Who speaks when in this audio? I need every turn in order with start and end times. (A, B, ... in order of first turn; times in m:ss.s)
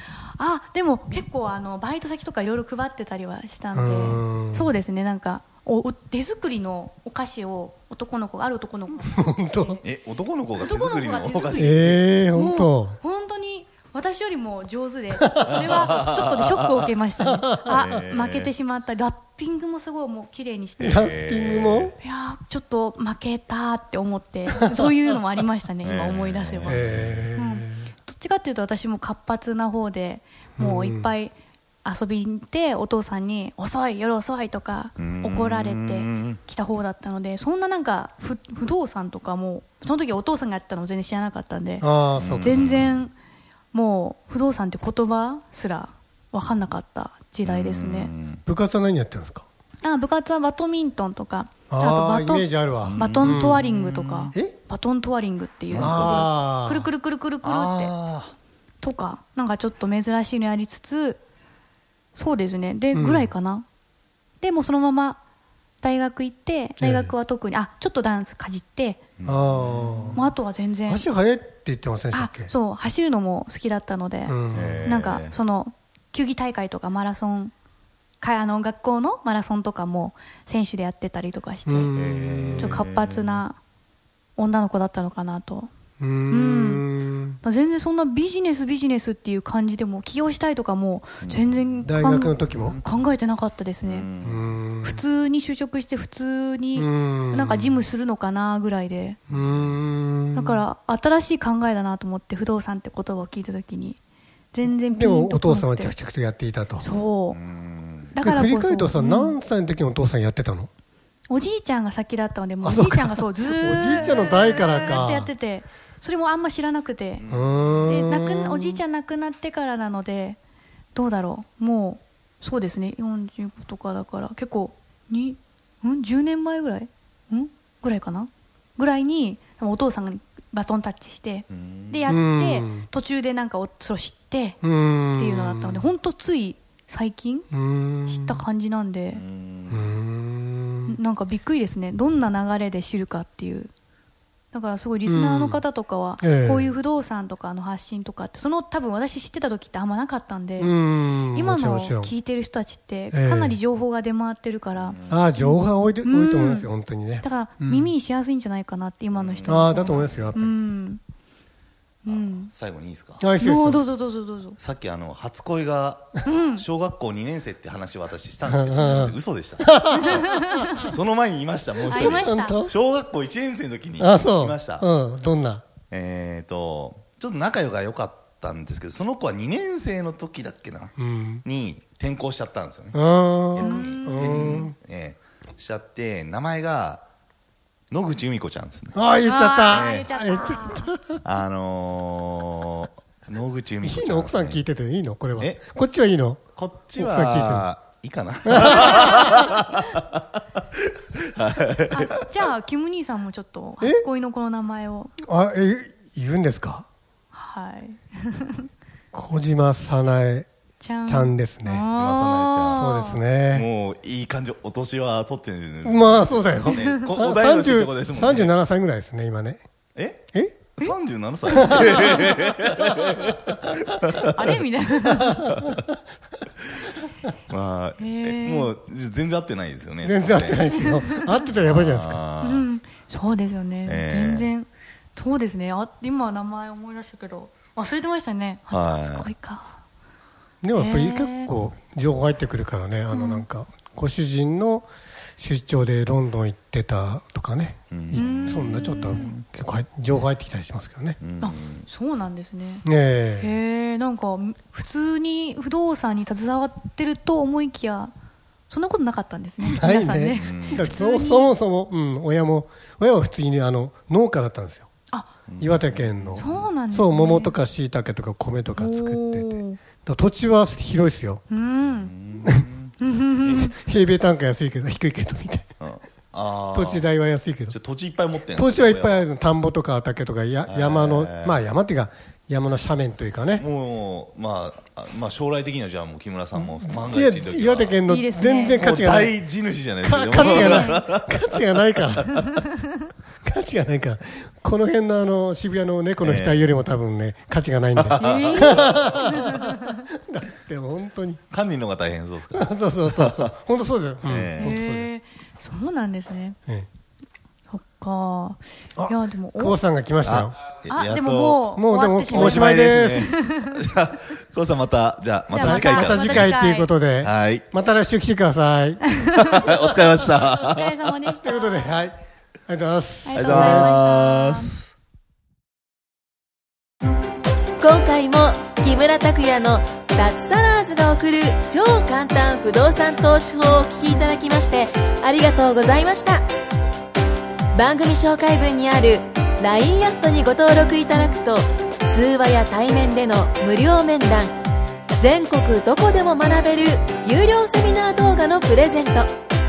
0:00.2-0:09.8 A
0:03.7-0:04.7 B
0:09.0-0:09.8 B
0:09.8-0:12.0 C
0:10.6-0:21.1 A
0:11.5-0:13.0 B
0:15.1-0:15.7 B
0:15.9-0:16.8 C
0:17.2-0:17.7 B
0:17.7-0:18.5 C
0:20.8-0:21.9 C
0:20.8-0:22.0 B
0:22.0-0:41.9 A
0:24.5-0:24.9 B
0:25.8-0:27.3 C
0:26.6-0:27.9 B
0:30.6-0:31.1 B
0:35.0-0:36.4 C
0:41.8-0:42.9 B
0:42.1-0:43.0 C
0:42.4-0:43.1 A
0:43.7-0:48.1 A
0:47.4-0:48.4 C
0:48.4-0:49.4 B
0:49.8-0:57.9 A
0:51.7-0:54.6 B
0:52.8-0:53.5 C
0:55.7-0:56.3 C
0:55.7-0:56.9 B
0:57.4-0:58.3 C
0:58.8-1:01.2 A
1:02.1-1:03.6 A
1:02.9-1:03.3 B
1:04.4-1:05.2 A
1:05.8-1:09.0 A
1:06.8-1:07.1 B
1:09.2-1:10.2 C
1:09.2-1:10.3 B
1:10.2-1:11.1 A
1:10.8-1:12.5 B
1:12.1-1:17.5 A
1:14.2-1:15.0 B
1:14.5-1:15.4 C
1:18.2-1:21.9 A
1:21.6-1:22.8 B
1:21.9-1:23.4 C
1:22.6-1:23.6 A
1:24.4-1:25.7 A
1:26.0-1:27.4 B
1:26.3-1:26.9 A
1:27.4-1:34.1 A
1:31.2-1:31.6 C
1:31.8-1:32.8 B
1:33.8-1:34.6 C
1:34.2-1:35.0 B
1:34.8-1:39.2 A
1:36.7-1:37.8 B
1:39.3-1:40.6 B
1:39.4-1:39.8 C
1:40.3-1:44.0 A
1:44.5-1:45.9 A
1:44.7-1:46.9 B
1:46.8-1:47.4 A
1:47.3-1:48.2 C
1:48.1-1:49.4 A
1:48.2-1:50.7 B
1:51.3-1:57.2 A
1:52.6-1:55.3 B
1:57.2-1:57.6 C
1:57.3-1:58.8 B
1:57.8-2:00.4 A
2:00.9-2:14.6 A
2:11.5-2:12.1 C
2:12.1-2:12.9 B
2:14.6-2:15.9 B
2:15.1-2:17.5 A
2:17.5-2:18.4 B
2:18.0-2:19.2 A
2:19.1-2:19.9 C
2:19.7-2:21.0 B
2:20.9-2:23.7 A
2:24.5-2:30.7 A
2:25.0-2:25.6 B
2:26.2-2:26.7 B
2:30.6-2:32.1 B
2:31.3-2:36.7 A
2:33.1-2:33.6 B
2:34.7-2:35.3 C
2:35.1-2:37.9 B
2:37.2-2:41.0 A
2:39.1-2:40.4 C
2:39.4-2:40.6 B
2:42.0-2:43.2 C
2:42.0-2:42.5 A
2:43.2-2:43.8 B
2:43.4-2:44.6 A
2:44.6-2:54.9 C
2:46.2-2:46.6 A
2:48.4-2:50.7 B
2:49.9-2:50.9 A
2:51.9-2:52.6 A
2:51.9-2:52.7 B
2:54.0-2:55.6 B
2:55.9-3:03.0 C
3:01.0-3:01.4 B
3:02.9-3:04.7 B
3:03.5-3:07.0 C
3:03.6-3:04.7 A
3:07.9-3:09.0 C
3:08.9-3:11.2 B
3:09.2-3:10.9 A
3:09.6-3:10.1 C
3:11.2-3:14.6 C
3:13.8-3:16.4 B
3:16.6-3:20.0 C
3:17.0-3:17.7 B
3:18.5-3:19.4 B
3:21.2-3:22.3 C
3:21.9-3:25.1 A
3:25.2-3:26.9 B
3:27.3-3:28.6 A
3:29.1-3:30.5 B
3:30.8-3:33.2 A
3:31.0-3:31.9 B
3:31.9-3:32.9 C
3:32.6-3:33.6 B
3:33.5-3:38.5 C
3:35.8-3:39.6 B
3:36.7-3:37.0 A
3:40.0-3:44.5 C
3:40.3-3:40.8 B
3:41.5-3:42.5 B
3:41.6-3:42.3 A
3:44.2-3:45.6 A
3:45.2-3:45.7 B
3:47.5-3:50.8 C
3:48.0-3:48.7 A
3:50.0-3:52.2 B
3:50.7-3:51.4 A
3:51.6-3:52.7 C
3:52.4-3:59.7 A
3:53.8-3:54.5 C
3:58.7-3:59.3 C
4:00.6-4:11.2 B
4:00.7-4:01.5 A
4:03.1-4:03.4 A
4:07.9-4:09.4 C
4:08.1-4:09.3 A
4:11.2-4:11.9 C
4:11.4-4:12.8 A
4:12.8-4:13.6 B
4:13.4-4:18.1 A
4:18.7-4:21.5 A
4:19.6-4:24.9 B
4:20.3-4:20.9 C
4:25.5-4:26.7 C
4:25.6-4:31.4 B
4:26.3-4:27.6 A
4:28.7-4:29.8 A
4:31.5-4:32.2 A
4:31.9-4:32.9 C
4:33.0-4:33.7 A
4:33.4-4:35.7 B
4:35.8-4:37.1 C
4:36.7-4:37.8 B
4:37.7-4:39.3 C
4:38.5-4:43.6 B
4:40.6-4:41.6 C
4:43.6-4:48.0 C
4:46.8-4:49.3 B
4:48.0-4:48.8 A
4:48.7-4:51.4 C
4:50.0-4:52.6 B
4:50.4-4:51.0 A
4:52.3-4:52.6 A
4:53.4-5:01.4 B
4:56.2-4:56.8 C
4:58.0-4:58.8 C
4:58.2-5:00.0 A
5:01.5-5:03.5 C
5:02.5-5:05.1 B
5:04.2-5:04.8 C
5:04.6-5:06.6 A
5:07.7-5:09.8 A
5:09.0-5:10.5 B
5:10.2-5:11.6 C
5:10.9-5:13.8 A
5:11.7-5:13.3 B
5:12.3-5:16.5 C
5:15.5-5:16.9 A
5:15.5-5:20.2 B
5:17.2-5:17.6 C
5:19.2-5:19.5 A
5:19.3-5:20.9 C
5:20.6-5:22.0 A
5:21.4-5:22.2 B
5:22.7-5:24.0 B
5:23.2-5:24.7 A
5:23.3-5:24.8 C
5:27.8-5:36.4 D
5:37.7-5:44.6 D
5:45.2-5:49.3 D